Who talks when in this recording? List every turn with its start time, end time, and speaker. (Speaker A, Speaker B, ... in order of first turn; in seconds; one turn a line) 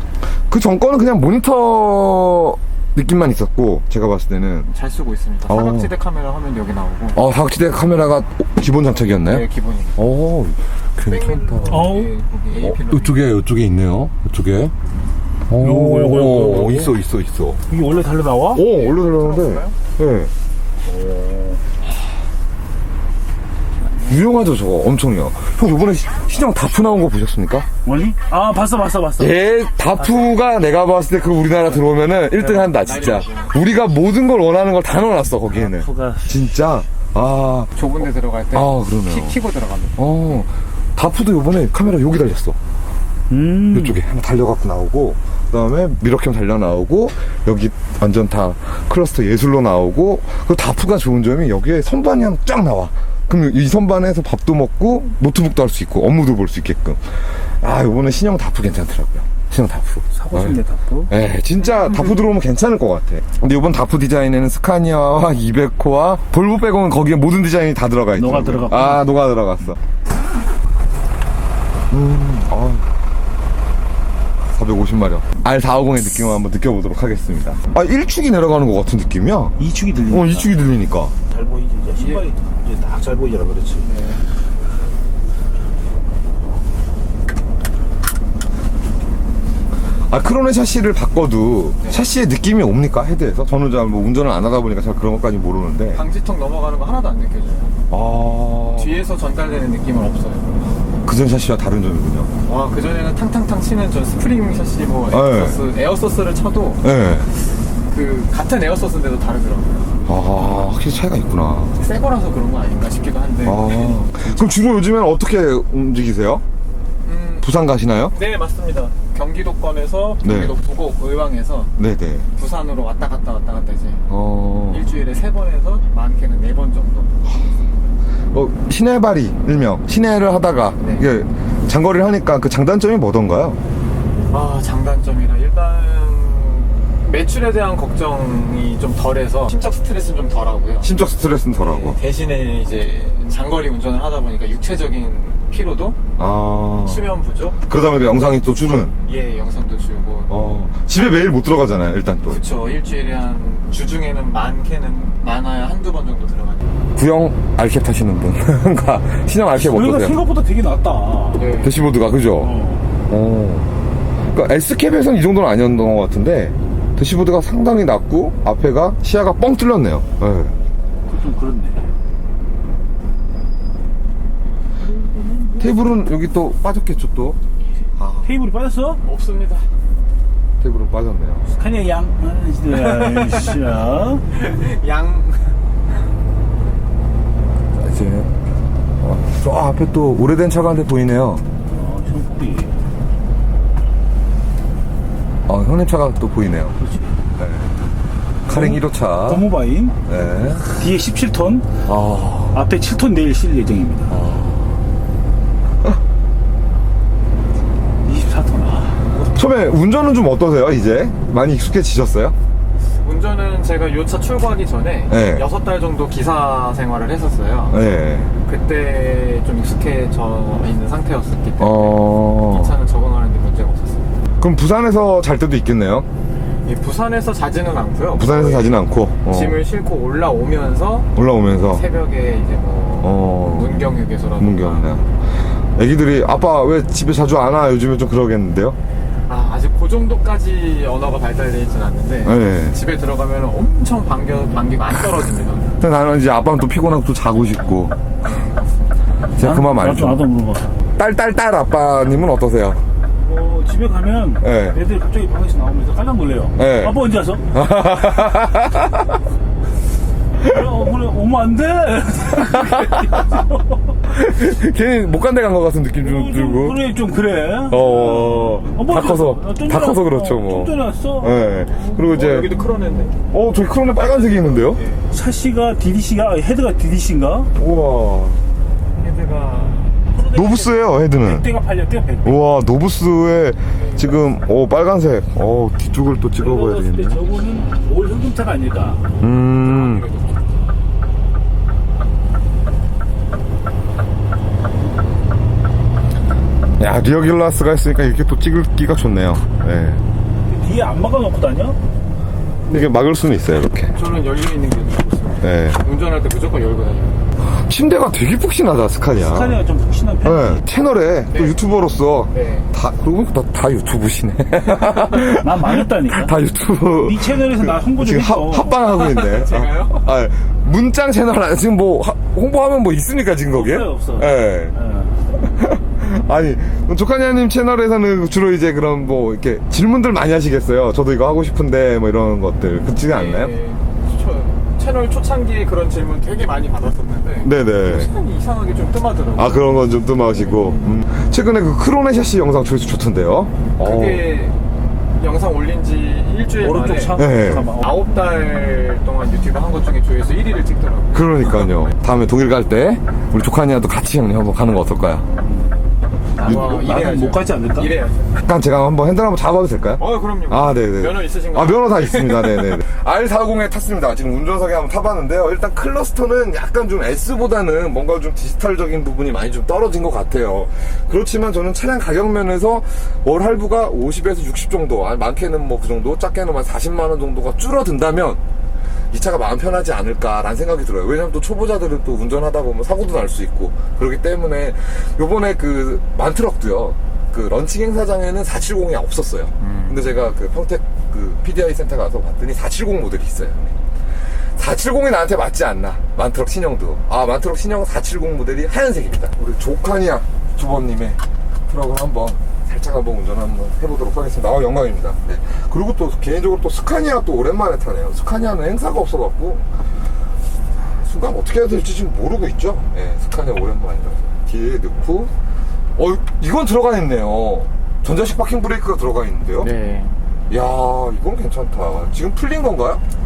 Speaker A: 0.5-4.7
Speaker B: 4.7-7.2
Speaker A: 5.5-5.9
Speaker A: 7.2-9.4
Speaker B: 8.9-10.0
Speaker A: 10.0-11.9
Speaker B: 11.1-13.3
Speaker C: 11.7-12.1
Speaker A: 12.6-14.7
Speaker A: 15.5-17.6
Speaker C: 15.6-16.9
Speaker C: 17.7-18.6
Speaker A: 18.5-20.3
Speaker B: 18.6-19.8
Speaker C: 20.8-21.6
Speaker A: 24.0-27.7
Speaker C: 27.9-29.4
Speaker A: 29.2-37.7
Speaker C: 30.0-30.2
Speaker C: 32.4-33.2
Speaker B: 32.8-33.6
Speaker C: 35.5-36.5
Speaker B: 37.8-40.4
Speaker A: 38.5-39.4
Speaker A: 40.0-42.6
Speaker C: 43.3-44.0
Speaker A: 43.7-69.8
Speaker C: 60.1-61.1
Speaker C: 68.2-69.1
Speaker A: 71.9-72.9
Speaker A: 74.6-79.6
Speaker C: 79.6-80.6
Speaker A: 80.1-81.1
Speaker C: 81.3-83.9
Speaker B: 82.0-82.3
Speaker B: 83.8-84.2
Speaker A: 90.1-96.0
Speaker B: 95.9-97.8
Speaker A: 97.9-99.0
Speaker B: 98.8-100.6
Speaker A: 101.0-102.3
Speaker B: 102.5-110.0
Speaker A: 105.1-105.6
Speaker A: 106.8-107.3
Speaker A: 110.1-111.8
Speaker B: 111.8-114.0
Speaker A: 113.4-116.4
Speaker B: 117.0-117.5
Speaker A: 117.4-118.2
Speaker B: 118.1-121.7
Speaker A: 120.2-120.5
Speaker A: 121.8-122.3
Speaker B: 122.3-124.0
Speaker A: 124.1-124.9
Speaker B: 124.7-127.2
Speaker A: 128.3-133.6
Speaker B: 130.8-131.1
Speaker B: 134.3-140.9
Speaker A: 140.8-142.0
Speaker B: 141.6-146.0
Speaker A: 146.2-147.0
Speaker B: 146.8-147.7
Speaker A: 147.7-148.9
Speaker B: 148.2-150.4
Speaker A: 150.3-152.4
Speaker B: 152.3-156.7
Speaker A: 157.0-160.2
Speaker C: 159.6-161.6
Speaker B: 161.3-161.7
Speaker A: 161.6-162.6
Speaker C: 162.4-162.9
Speaker A: 163.1-163.7
Speaker A: 164.3-170.6
Speaker C: 171.1-171.9
Speaker C: 174.8-175.9
Speaker A: 175.6-177.4
Speaker A: 178.0-178.3
Speaker C: 178.2-179.0
Speaker B: 179.0-179.7
Speaker A: 180.6-181.4
Speaker C: 181.5-184.2
Speaker B: 182.7-183.6
Speaker B: 184.3-185.6
Speaker A: 187.8-188.3
Speaker A: 189.0-191.4
Speaker C: 191.7-192.8
Speaker A: 195.5-196.8
Speaker C: 196.8-197.2
Speaker A: 197.4-197.7
Speaker A: 198.5-199.5
Speaker C: 198.5-200.0
Speaker A: 200.1-200.8
Speaker C: 200.7-201.7
Speaker A: 201.8-202.6
Speaker C: 202.5-204.2
Speaker A: 204.1-204.8
Speaker C: 208.0-209.2
Speaker A: 209.3-212.4
Speaker B: 213.0-217.8
Speaker A: 215.1-215.4
Speaker A: 217.7-218.3
Speaker B: 218.5-224.1
Speaker A: 221.6-222.7
Speaker A: 224.4-226.1
Speaker B: 226.7-234.9
Speaker A: 228.2-229.6
Speaker A: 231.2-231.8
Speaker A: 233.0-233.9
Speaker A: 234.4-235.1
Speaker A: 235.8-238.8
Speaker B: 239.3-245.7
Speaker A: 242.2-242.8
Speaker A: 245.8-248.0
Speaker B: 248.0-249.1
Speaker A: 249.4-250.3
Speaker C: 249.4-250.8
Speaker A: 251.0-252.8
Speaker C: 253.2-257.4
Speaker A: 254.4-254.8
Speaker A: 256.6-259.1
Speaker C: 260.4-263.9
Speaker A: 262.5-263.3
Speaker A: 264.1-266.8
Speaker C: 266.0-271.6
Speaker A: 267.7-272.6
Speaker B: 271.7-273.2
Speaker A: 273.3-274.8
Speaker B: 273.9-275.1
Speaker C: 275.1-277.5
Speaker A: 277.6-278.4
Speaker B: 279.0-280.1
Speaker C: 280.2-282.4
Speaker A: 280.3-281.5
Speaker A: 282.2-287.2
Speaker B: 283.8-284.2
Speaker C: 286.4-289.0
Speaker A: 289.2-290.1
Speaker B: 289.6-290.6
Speaker A: 296.8-300.0
Speaker C: 300.5-301.8
Speaker A: 302.7-303.9
Speaker B: 303.9-307.2
Speaker A: 305.4-305.8
Speaker A: 307.6-309.6
Speaker C: 309.1-310.6
Speaker A: 310.2-324.8
Speaker B: 311.3-311.6
Speaker B: 312.3-312.7
Speaker C: 315.1-316.4
Speaker C: 316.9-318.8
Speaker B: 318.8-320.1
Speaker C: 323.5-325.2
Speaker A: 325.4-333.5
Speaker B: 333.0-340.9
Speaker A: 337.4-338.1
Speaker A: 339.4-344.2
Speaker B: 343.8-344.6
Speaker B: 345.2-351.8
Speaker C: 346.6-347.9
Speaker A: 347.2-347.7
Speaker A: 351.1-355.3
Speaker C: 355.4-355.7
Speaker C: 356.4-358.0
Speaker B: 356.4-358.4
Speaker A: 356.4-356.9
Speaker A: 358.4-378.4
Speaker B: 360.0-362.8
Speaker A: 379.1-393.8
Speaker B: 389.6-390.1
Speaker A: 394.3-409.7
Speaker A: 411.0-415.3
Speaker A: 416.0-419.7
Speaker B: 419.6-420.1
Speaker A: 420.5-423.0